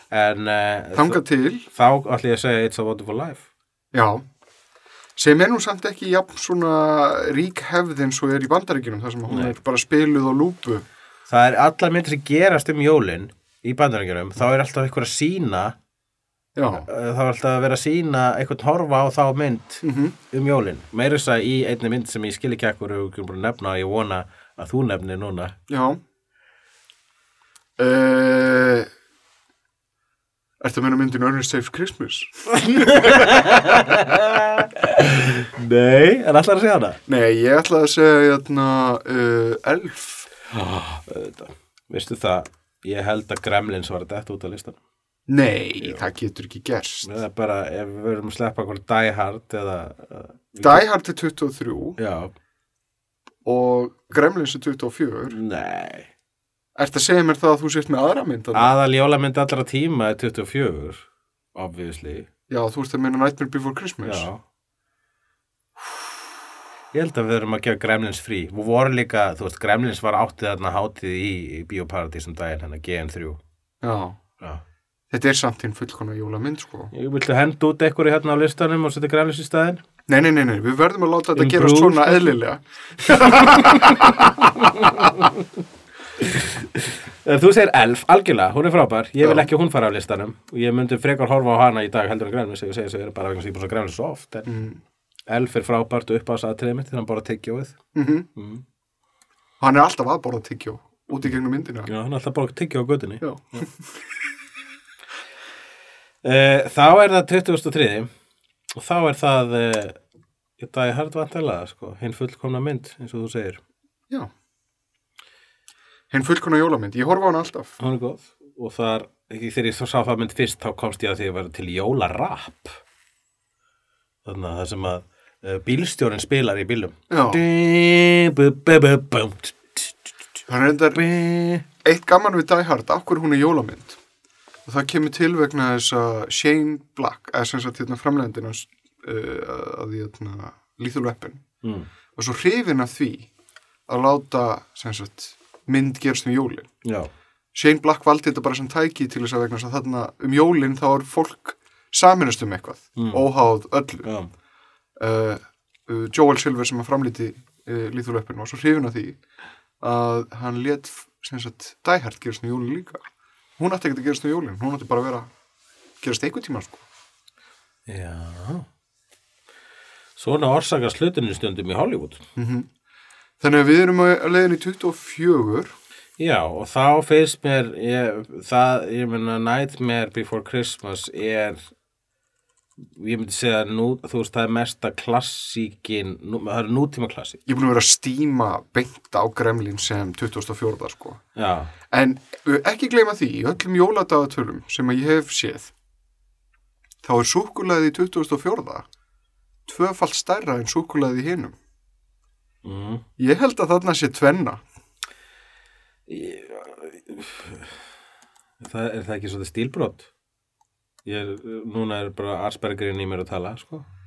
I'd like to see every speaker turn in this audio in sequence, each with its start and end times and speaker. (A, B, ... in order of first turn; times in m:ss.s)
0:00.1-0:03.4 A
0:00.9-0:01.7 B
0:03.9-0:04.2 B
0:05.2-0:10.9 B
0:09.3-0:09.6 A
0:11.3-0:15.8 A
0:16.6-0:16.9 B
0:16.7-0:25.6 A
0:19.8-0:20.2 B
0:25.7-0:26.0 B
0:27.8-0:28.9 B
0:30.6-0:33.4 B
0:32.7-0:37.0 A
0:37.1-0:40.3 B
0:40.5-0:44.8 A
0:45.3-0:47.1 B
0:45.8-0:46.1 A
0:47.0-0:50.8 A
0:50.6-0:52.0 B
0:52.0-0:52.3 A
0:53.4-0:55.4 B
0:55.3-0:56.1 A
0:56.8-0:58.7 B
0:58.5-1:02.3 A
1:02.5-1:04.3 B
1:04.1-1:04.4 A
1:06.9-1:13.4 A
1:13.8-1:14.2 B
1:15.1-1:16.9 B
1:16.9-1:19.8 A
1:20.1-1:24.3 B
1:21.4-1:22.3 A
1:23.5-1:23.8 A
1:24.6-1:25.5 A
1:26.2-1:34.5 A
1:29.2-1:29.5 B
1:34.5-1:34.8 B
1:35.3-1:37.8 A
1:38.0-1:38.3 B
1:38.4-1:38.6 A
1:39.6-1:41.9 B
1:41.9-1:43.6 A
1:43.2-1:44.0 B
1:46.2-1:48.1 A
1:48.8-1:50.0 A
1:50.6-1:53.6 A
1:56.1-1:57.7 B
1:57.8-2:02.8 A
2:04.2-2:10.0 A
2:07.1-2:07.4 B
2:10.5-2:11.0 B
2:10.9-2:11.6 A
2:11.8-2:14.0 B
2:14.7-2:21.4 B
2:21.6-2:21.9 A
2:22.2-2:23.3 B
2:23.9-2:26.7 B
2:26.8-2:27.1 A
2:27.5-2:34.1 B
2:33.0-2:33.3 A
2:34.0-2:34.3 A
2:35.0-2:39.2 B
2:39.8-2:43.0 B
2:43.6-2:45.3 B
2:46.0-2:46.8 B
2:47.9-2:48.7 A
2:50.2-2:52.2 A
2:52.4-2:52.7 B
2:53.4-2:55.8 B
2:56.2-3:01.7 A
3:02.8-3:07.4 A
3:07.5-3:11.2 B
3:11.4-3:11.7 A
3:11.9-3:15.7 B
3:17.0-3:18.9 B
3:19.7-3:21.6 B
3:22.6-3:23.0 A
3:23.2-3:24.6 B
3:26.1-3:27.8 A
3:28.6-3:30.1 A
3:31.0-3:33.9 A